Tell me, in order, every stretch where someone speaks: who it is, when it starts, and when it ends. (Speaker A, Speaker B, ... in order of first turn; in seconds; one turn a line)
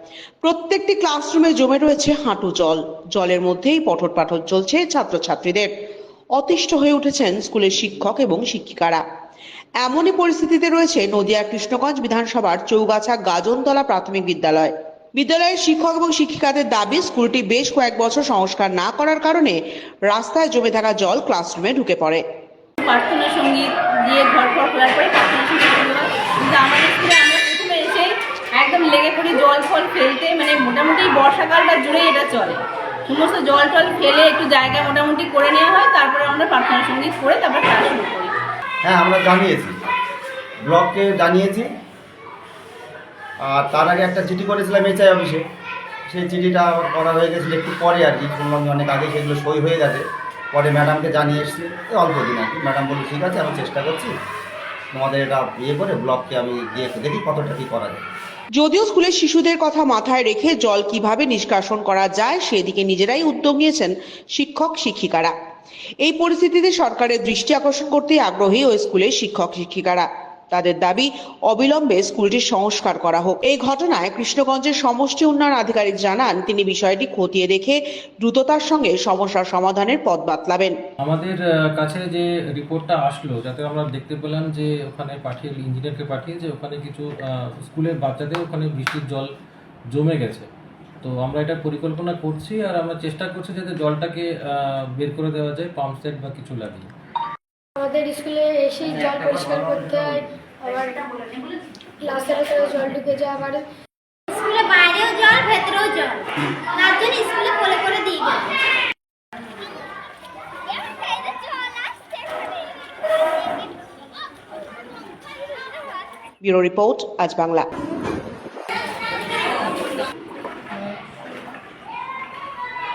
Speaker A: 0.4-5.7
Speaker A: 6.3-9.0
Speaker A: 9.8-19.6
Speaker A: 20.1-22.2
Speaker B: 22.8-38.4
Speaker C: 38.8-39.8
Speaker C: 40.6-41.7
Speaker C: 43.4-45.4
Speaker C: 46.1-54.1
Speaker C: 54.9-58.0
Speaker A: 58.6-65.3
Speaker A: 66.0-80.8
Speaker D: 81.0-89.3
Speaker D: 89.9-90.5
Speaker D: 91.0-96.9
Speaker E: 97.8-103.7
Speaker F: 104.3-108.5
Speaker A: 116.4-117.7